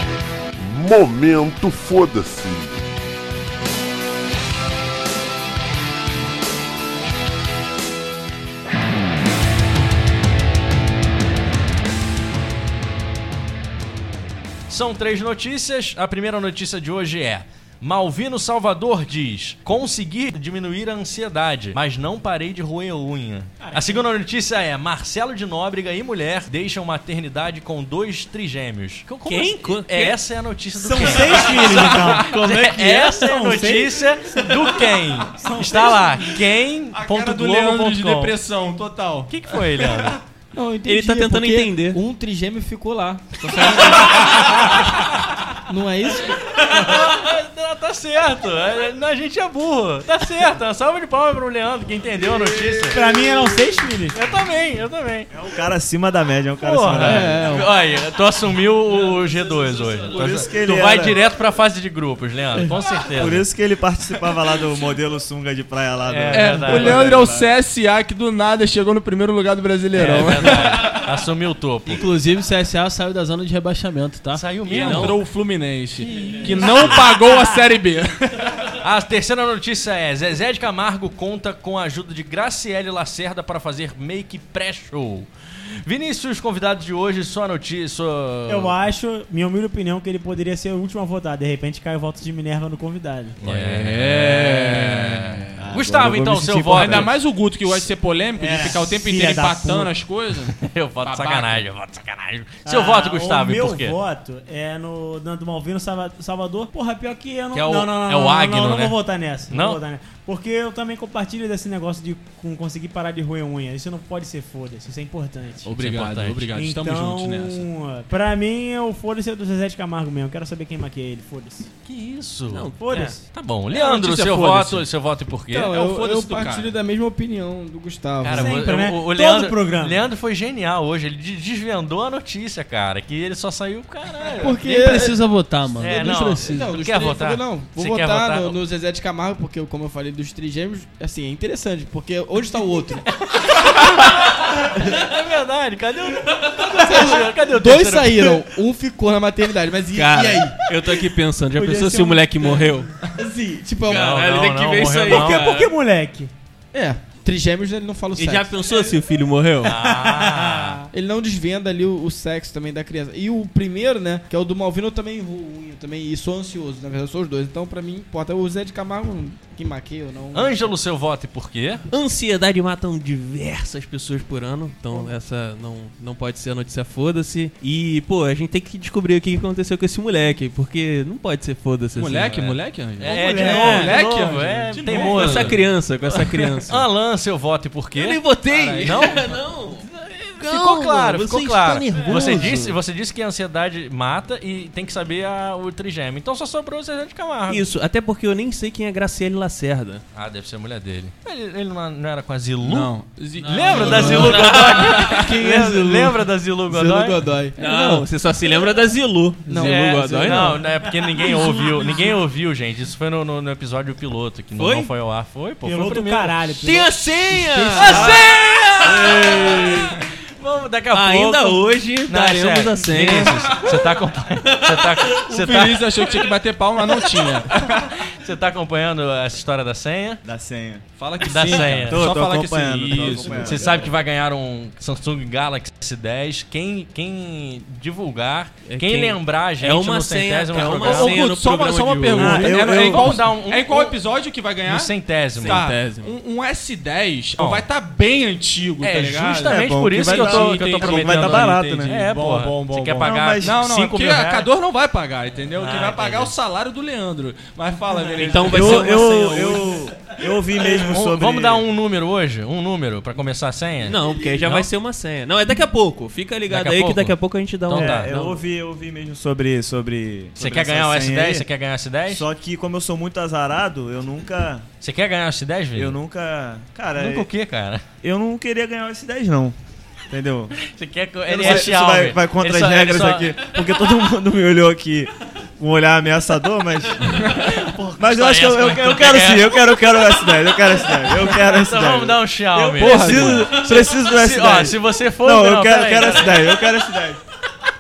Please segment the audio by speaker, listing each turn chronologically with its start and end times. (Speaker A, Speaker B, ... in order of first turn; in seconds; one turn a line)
Speaker A: 0.6-2.8
Speaker B: 14.7-38.3
Speaker C: 23.6-24.0
Speaker D: 29.2-30.2
Speaker C: 30.8-34.7
Speaker E: 31.5-32.3
Speaker C: 35.3-36.3
Speaker E: 36.9-39.3
Speaker B: 39.3-40.2
Speaker F: 40.5-45.0
Speaker D: 40.8-42.0
Speaker B: 43.6-44.4
Speaker F: 45.6-46.5
Speaker B: 46.5-53.0
Speaker C: 52.9-54.2
Speaker B: 54.1-55.3
Speaker G: 55.3-57.4
Speaker B: 56.6-63.5
Speaker F: 56.9-57.7
Speaker G: 60.1-61.2
Speaker G: 63.2-67.5
Speaker B: 66.1-67.2
Speaker E: 66.3-71.0
Speaker B: 69.9-72.0
Speaker H: 71.9-74.6
Speaker B: 74.3-75.2
Speaker D: 74.7-75.2
Speaker E: 74.7-78.5
Speaker B: 76.1-77.2
Speaker B: 78.8-85.3
Speaker B: 85.8-88.7
Speaker C: 88.5-93.4
Speaker B: 93.4-97.1
Speaker E: 93.5-95.6
Speaker G: 95.6-97.1
Speaker E: 96.7-101.6
Speaker C: 98.4-99.9
Speaker B: 100.6-104.0
Speaker C: 102.6-115.7
Speaker B: 107.5-109.0
Speaker B: 109.5-109.8
Speaker E: 115.6-117.7
Speaker B: 115.8-116.5
Speaker C: 116.5-121.7
Speaker B: 121.8-125.7
Speaker D: 122.5-123.1
Speaker C: 122.8-123.2
Speaker E: 123.7-124.8
Speaker F: 125.5-128.6
Speaker E: 125.6-126.7
Speaker B: 128.2-134.6
Speaker C: 128.3-130.0
Speaker F: 134.3-135.2
Speaker H: 134.6-136.7
Speaker B: 135.8-138.6
Speaker F: 135.8-143.0
Speaker B: 143.2-148.4
Speaker F: 146.6-150.6
Speaker D: 149.9-152.9
Speaker C: 151.6-152.7
Speaker F: 153.1-154.3
Speaker B: 153.8-155.6
Speaker D: 153.8-155.7
Speaker C: 155.1-156.3
Speaker F: 156.7-158.8
Speaker D: 158.2-159.7
Speaker B: 159.6-160.8
Speaker C: 159.6-160.9
Speaker F: 160.9-170.7
Speaker B: 170.3-171.8
Speaker D: 171.9-182.4
Speaker E: 181.9-185.6
Speaker B: 182.2-185.6
Speaker C: 183.0-183.8
Speaker D: 183.4-183.9
Speaker D: 184.8-186.8
Speaker B: 186.7-189.9
Speaker D: 187.9-192.8
Speaker E: 188.5-188.9
Speaker B: 190.4-197.7
Speaker D: 197.5-200.0
Speaker B: 200.1-207.2
Speaker E: 202.6-205.3
Speaker D: 203.5-205.1
Speaker H: 203.8-204.2
Speaker F: 203.9-204.2
Speaker F: 205.1-208.0
Speaker D: 207.6-210.6
Speaker F: 209.4-210.6
Speaker B: 210.2-216.3
Speaker C: 211.0-212.2
Speaker D: 214.6-214.9
Speaker C: 215.6-218.2
Speaker D: 216.6-219.8
Speaker F: 217.6-217.9
Speaker B: 217.8-225.9
Speaker D: 220.9-223.8
Speaker D: 224.5-225.0
Speaker E: 225.3-227.9
Speaker B: 227.6-230.2
Speaker G: 230.2-230.8
Speaker E: 231.0-233.9
Speaker B: 231.2-232.1
Speaker G: 231.9-233.9
Speaker B: 233.0-241.3
Speaker D: 238.7-242.5
Speaker E: 240.6-259.0
Speaker G: 242.2-243.2
Speaker B: 242.3-244.0
Speaker B: 244.6-245.6
Speaker D: 245.3-246.2
Speaker B: 247.4-247.6
Speaker B: 248.8-254.5
Speaker G: 249.4-251.9
Speaker G: 253.0-253.6
Speaker B: 255.6-256.3
Speaker D: 258.0-259.8
Speaker G: 258.5-261.7
Speaker B: 260.6-264.7
Speaker D: 263.8-268.4
Speaker B: 266.5-268.1
Speaker G: 267.7-271.5
Speaker B: 270.4-272.2
Speaker G: 272.1-274.6
Speaker B: 274.8-276.0
Speaker G: 275.7-277.3
Speaker B: 276.9-277.8
Speaker G: 278.0-279.6
Speaker G: 280.1-280.6
Speaker B: 280.6-283.4
Speaker G: 281.3-292.2
Speaker B: 287.2-290.3
Speaker B: 291.1-296.7
Speaker D: 292.6-293.6
Speaker G: 292.8-297.2